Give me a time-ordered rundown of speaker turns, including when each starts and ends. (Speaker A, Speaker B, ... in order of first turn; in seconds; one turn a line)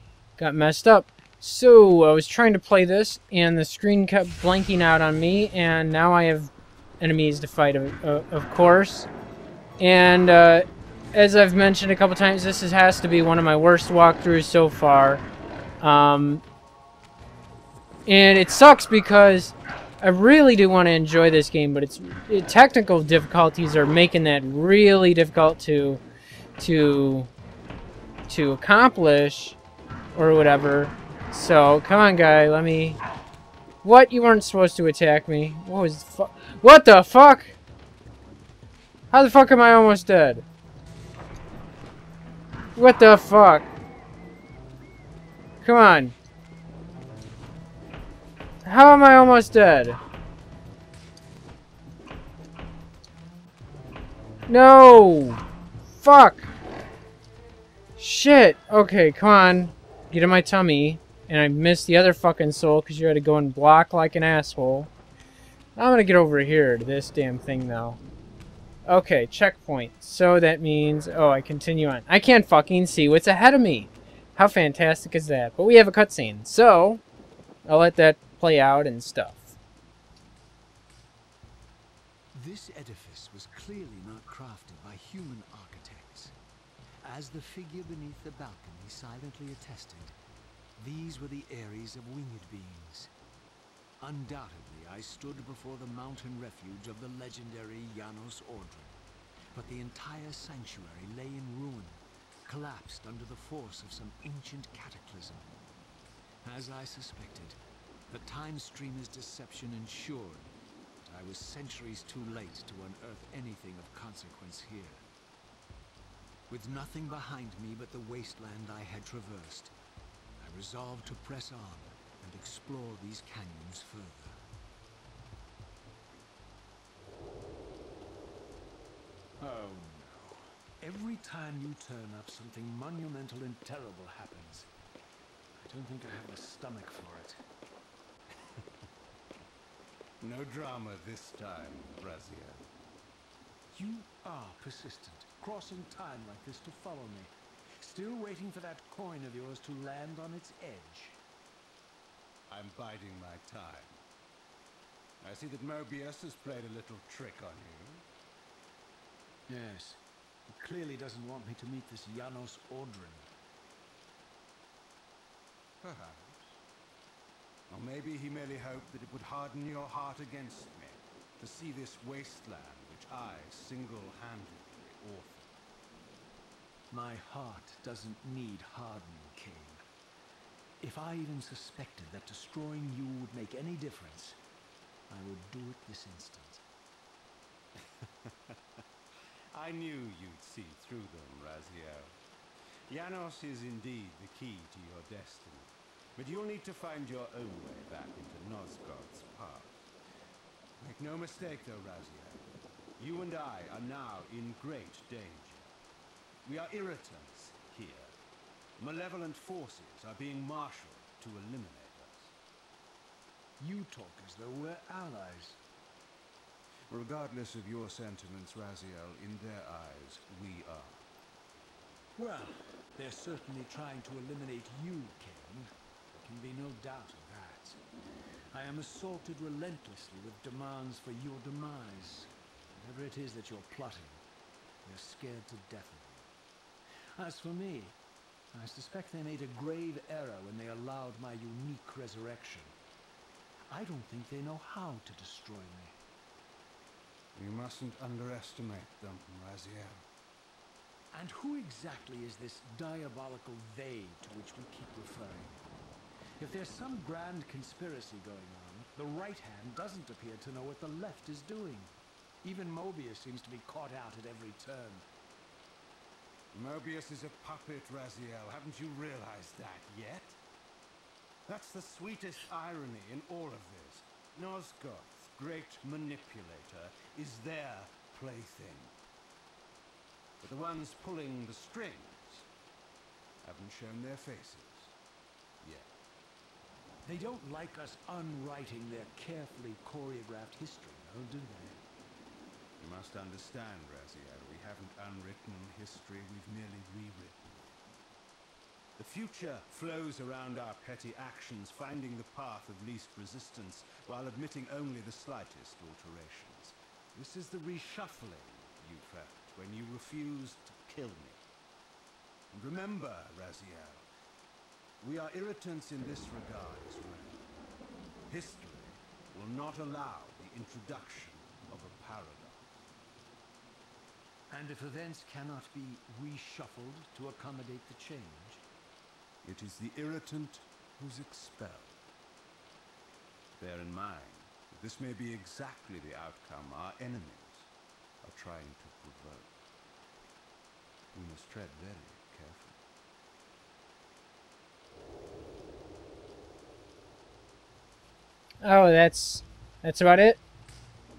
Speaker A: 0.4-9.1
Speaker A: 9.8-15.2
Speaker A: 15.8-16.4
Speaker A: 18.1-26.0
Speaker A: 26.6-27.3
Speaker A: 28.3-29.6
Speaker A: 30.1-33.0
Speaker A: 33.8-37.6
Speaker A: 39.1-40.5
Speaker A: 42.8-43.7
Speaker A: 45.6-46.2
Speaker A: 48.6-50.0
Speaker A: 54.5-55.4
Speaker A: 56.0-56.5
Speaker A: 58.0-64.9
Speaker A: 65.8-68.0
Speaker A: 68.9-77.0
Speaker A: 77.7-79.6
Speaker B: 82.3-86.3
Speaker B: 87.0-90.2
Speaker B: 90.8-93.1
Speaker B: 94.0-99.0
Speaker B: 99.5-105.5
Speaker B: 106.5-107.6
Speaker B: 108.1-110.5
Speaker B: 111.1-115.0
Speaker B: 116.5-119.7
Speaker B: 120.4-124.4
Speaker B: 129.4-134.7
Speaker B: 135.6-137.4
Speaker C: 140.2-142.7
Speaker B: 143.7-151.2
Speaker C: 152.5-154.0
Speaker C: 155.2-158.1
Speaker B: 159.5-163.3
Speaker C: 165.8-166.6
Speaker C: 167.7-175.5
Speaker B: 176.9-179.8
Speaker B: 180.8-184.4
Speaker B: 185.1-186.6
Speaker C: 187.8-188.6
Speaker C: 189.5-192.2
Speaker C: 192.9-199.9
Speaker C: 200.8-202.4
Speaker C: 203.0-205.7
Speaker C: 206.4-208.2
Speaker C: 208.8-212.4
Speaker B: 213.6-215.6
Speaker C: 216.9-221.0
Speaker B: 222.2-227.8
Speaker B: 228.5-234.2
Speaker B: 234.8-236.3
Speaker B: 237.2-238.0
Speaker B: 238.5-242.8
Speaker B: 243.7-246.0
Speaker C: 247.3-250.0
Speaker B: 251.1-255.6
Speaker B: 256.4-261.9
Speaker B: 262.4-265.1
Speaker C: 266.5-270.4
Speaker C: 271.5-279.0
Speaker C: 280.4-282.5
Speaker C: 283.4-285.0
Speaker C: 285.6-285.9
Speaker B: 287.0-291.8
Speaker C: 292.8-297.8
Speaker C: 299.0-311.4
Speaker C: 312.5-314.1
Speaker C: 315.0-317.4
Speaker C: 318.3-322.9
Speaker B: 324.5-328.6
Speaker C: 329.4-332.0
Speaker C: 333.6-337.7
Speaker C: 338.2-339.5
Speaker C: 341.1-342.8
Speaker A: 348.6-350.4